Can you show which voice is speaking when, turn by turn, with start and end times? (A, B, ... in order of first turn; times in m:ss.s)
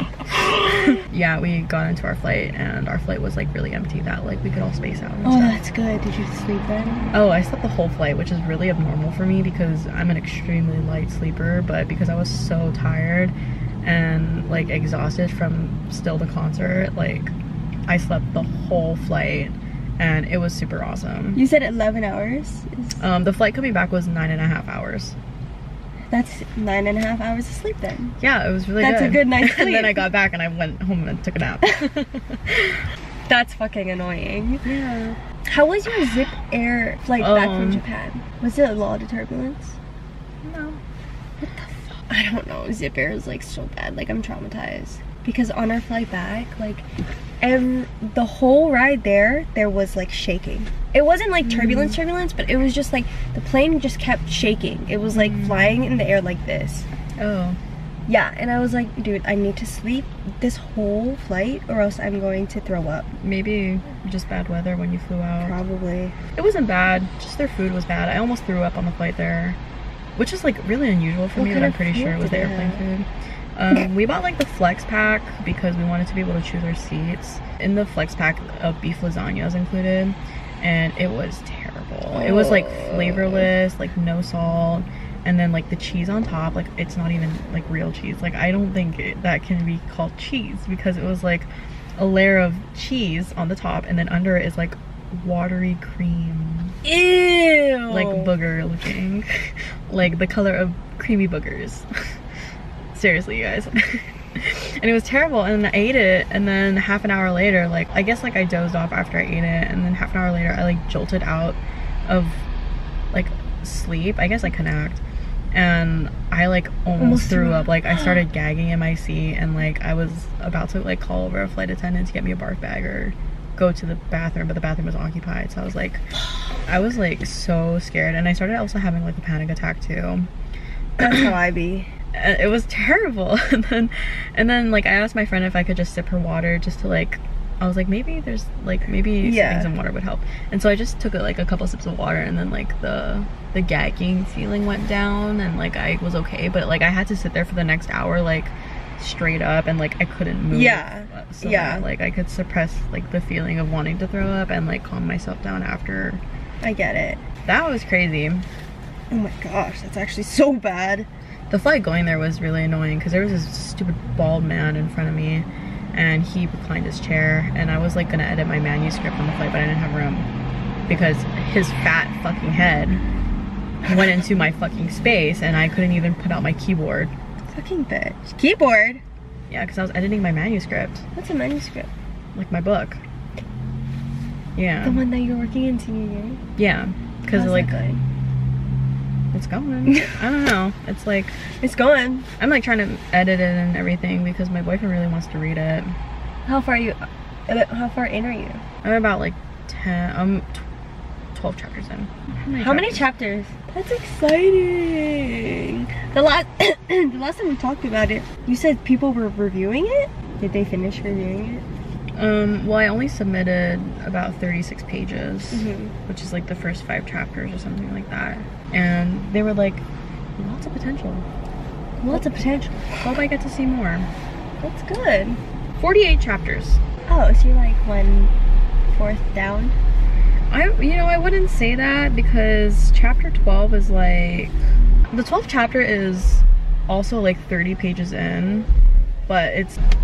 0:00.3-0:01.0 A
0:00.6-0:05.6 B
0:05.2-0:07.2 A
0:07.1-0:17.3 B
0:17.9-0:21.4 B
0:21.4-0:23.0 A
0:23.0-0:25.2 B
0:26.1-0:28.2 A
0:28.2-0:32.8 B
0:28.8-0:30.1 A
0:33.3-0:34.6 A
0:34.6-0:35.2 B
0:35.5-0:39.8 A
0:37.2-0:37.8 B
0:40.4-0:40.8 B
0:41.4-0:46.9 A
0:47.4-0:56.9 A
0:51.4-0:52.0 B
0:55.1-0:55.8 B
0:57.2-0:57.6 B
0:58.1-1:03.1 A
1:03.2-1:05.6 B
1:05.4-1:06.2 A
1:06.4-1:09.6 B
1:10.2-1:36.8 B
1:11.4-1:12.8 A
1:22.1-1:23.4 A
1:36.8-1:38.3 A
1:37.9-1:41.9 B
1:42.9-1:52.4 B
1:53.1-1:55.0 B
1:55.5-2:06.0 B
1:57.0-1:58.2 A
2:06.7-2:10.3 B
2:11.0-2:11.9 A
2:12.1-2:36.2 B
2:19.2-2:19.7 A
2:30.5-2:31.8 A
2:36.6-2:37.2 A
2:37.5-2:38.5 B
2:39.1-2:41.1 A
2:41.5-2:50.3 B
2:50.9-2:53.0 B
2:53.9-2:57.1 B
2:57.5-2:59.0 A
2:59.5-3:01.0 B
3:01.2-3:01.9 A
3:02.3-3:03.0 B
3:04.6-3:05.0 B
3:04.8-3:06.4 A
3:06.6-3:07.8 B
3:07.3-3:08.0 A
3:09.3-3:11.4 B
3:09.9-3:10.2 A
3:11.6-3:12.3 A
3:12.4-3:16.0 B
3:16.5-3:18.6 A
3:18.8-3:20.6 B
3:21.3-3:23.0 B
3:22.6-3:31.6 A
3:32.2-3:39.8 B
3:35.5-3:35.9 A
3:40.4-3:41.3 B
3:42.0-3:43.0 A
3:42.9-3:44.1 B
3:44.6-3:45.4 A
3:45.8-3:46.8 B
3:47.1-3:48.3 A
3:48.9-3:49.8 A
3:50.5-3:54.5 B
3:55.1-3:58.7 B
3:59.3-3:59.8 B